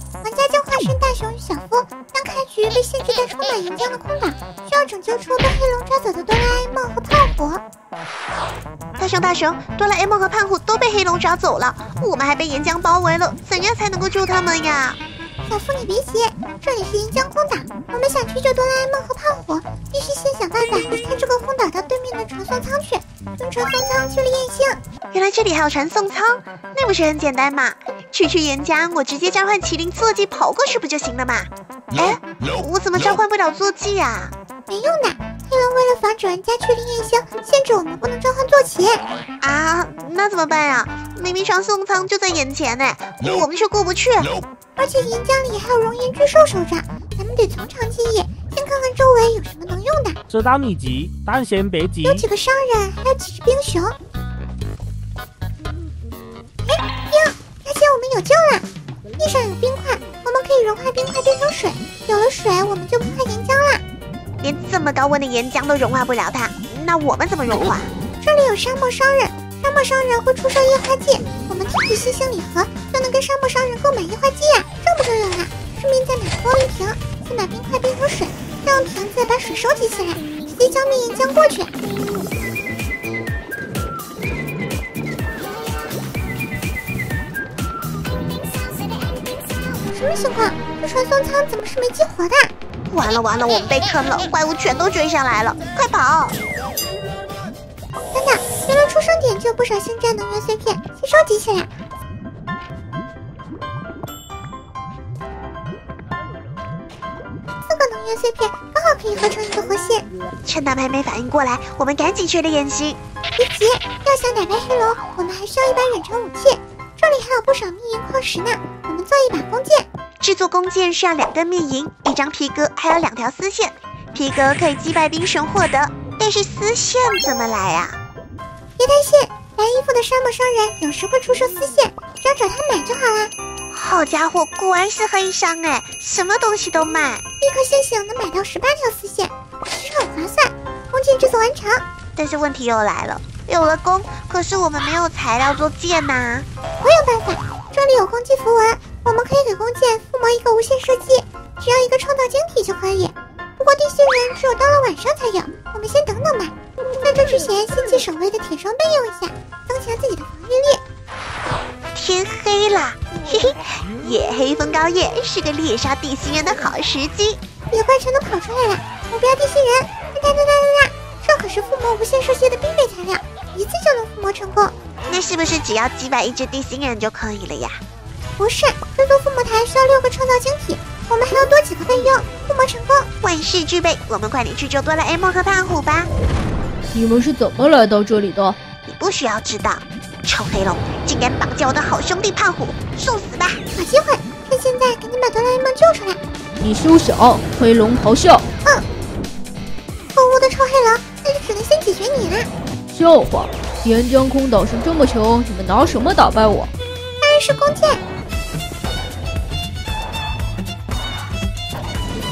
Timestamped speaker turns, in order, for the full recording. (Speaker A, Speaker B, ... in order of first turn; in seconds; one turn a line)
Speaker A: 0.2-7.6
Speaker B: 9.0-15.0
Speaker A: 15.5-24.8
Speaker B: 25.1-34.3
Speaker A: 34.7-39.0
Speaker B: 39.4-44.4
Speaker A: 44.8-50.2
Speaker C: 50.3-52.2
Speaker A: 52.0-53.9
Speaker A: 56.6-58.6
Speaker A: 59.2-63.8
Speaker B: 64.4-67.9
Speaker A: 68.2-81.7
Speaker A: 89.9-92.5
Speaker B: 92.9-96.4
Speaker A: 98.1-101.7
Speaker A: 107.7-110.0
Speaker B: 110.4-113.0
Speaker A: 113.3-119.9
Speaker B: 120.2-128.0
Speaker A: 128.8-133.3
Speaker B: 133.7-137.2
Speaker A: 137.4-141.8
Speaker B: 142.2-146.4
Speaker A: 146.8-160.8
Speaker B: 161.9-167.4
Speaker A: 167.7-174.7
Speaker B: 175.1-177.8
Speaker A: 178.4-183.1
Speaker B: 183.2-186.1
Speaker D: 186.9-188.6
Speaker B: 188.9-193.6
Speaker A: 193.7-196.2
Speaker D: 196.6-198.4
Speaker A: 200.1-202.5
Speaker D: 202.9-206.7
Speaker A: 207.2-208.0